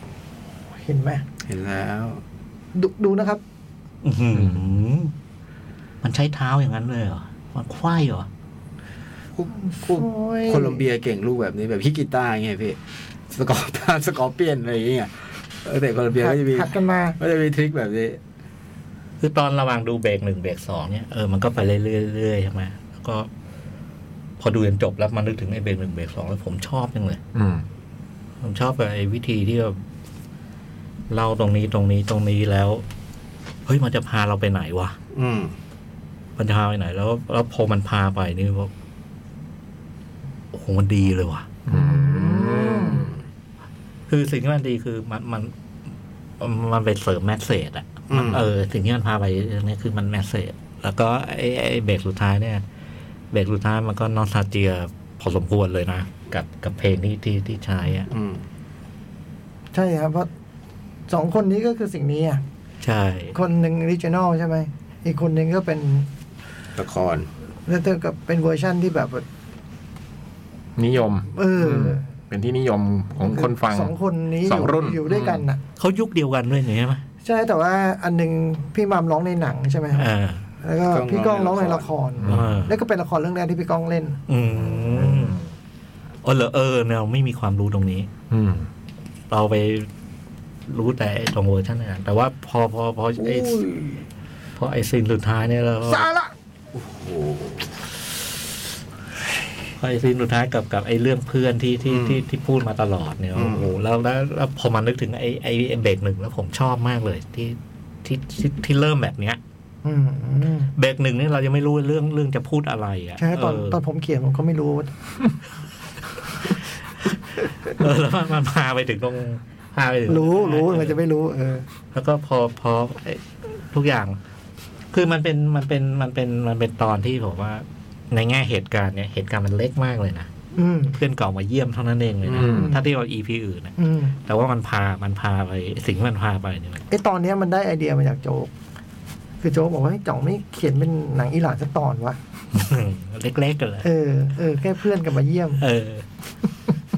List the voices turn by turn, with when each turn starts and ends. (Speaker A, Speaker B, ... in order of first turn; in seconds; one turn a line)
Speaker A: 0.7-1.2
Speaker B: 1.4-2.2
Speaker A: 2.7-3.4
Speaker C: 4.0-5.1
Speaker C: 6.0-8.3
Speaker B: 9.3-12.8
Speaker A: 9.8-10.8
Speaker B: 13.3-18.2
Speaker A: 16.1-17.2
Speaker C: 19.2-23.3
Speaker C: 24.4-27.2
Speaker D: 27.3-27.6
Speaker C: 28.4-29.8
Speaker C: 31.1-32.8
Speaker C: 33.6-35.0
Speaker B: 35.1-35.5
Speaker C: 36.4-38.7
Speaker C: 40.5-41.5
Speaker D: 41.7-43.1
Speaker A: 41.7-43.1
Speaker B: 42.3-43.1
Speaker C: 44.1-45.5
Speaker C: 46.4-52.6
Speaker B: 48.1-48.5
Speaker C: 53.3-58.1
Speaker B: 58.1-58.4
Speaker A: 59.7-60.3
Speaker A: 61.1-62.4
Speaker C: 62.8-63.4
Speaker A: 63.3-66.1
Speaker B: 66.8-67.3
Speaker A: 67.7-69.2
Speaker D: 70.8-75.4
Speaker A: 71.3-72.0
Speaker A: 73.2-75.6
Speaker C: 75.8-77.0
Speaker A: 77.2-80.1
Speaker C: 79.9-80.4
Speaker A: 80.6-84.2
Speaker B: 80.9-81.9
Speaker D: 82.2-82.6
Speaker C: 82.2-82.7
Speaker C: 84.3-85.4
Speaker D: 84.6-85.4
Speaker C: 86.2-88.1
Speaker D: 88.3-88.7
Speaker C: 89.3-89.9
Speaker C: 90.7-93.6
Speaker B: 93.2-94.0
Speaker C: 94.5-96.1
Speaker B: 96.7-97.7
Speaker C: 99.8-109.4
Speaker B: 101.8-102.2
Speaker B: 103.3-103.7
Speaker A: 109.8-110.7
Speaker C: 110.7-113.8
Speaker A: 113.2-114.9
Speaker C: 117.7-121.0
Speaker A: 120.1-121.7
Speaker C: 121.9-124.2
Speaker C: 124.9-130.3
Speaker A: 130.6-131.0
Speaker C: 130.9-136.8
Speaker B: 132.3-132.6
Speaker D: 132.3-132.7
Speaker A: 132.5-132.8
Speaker A: 133.8-134.2
Speaker A: 136.9-138.5
Speaker A: 139.4-142.2
Speaker C: 142.5-143.9
Speaker A: 143.8-145.6
Speaker C: 145.6-146.1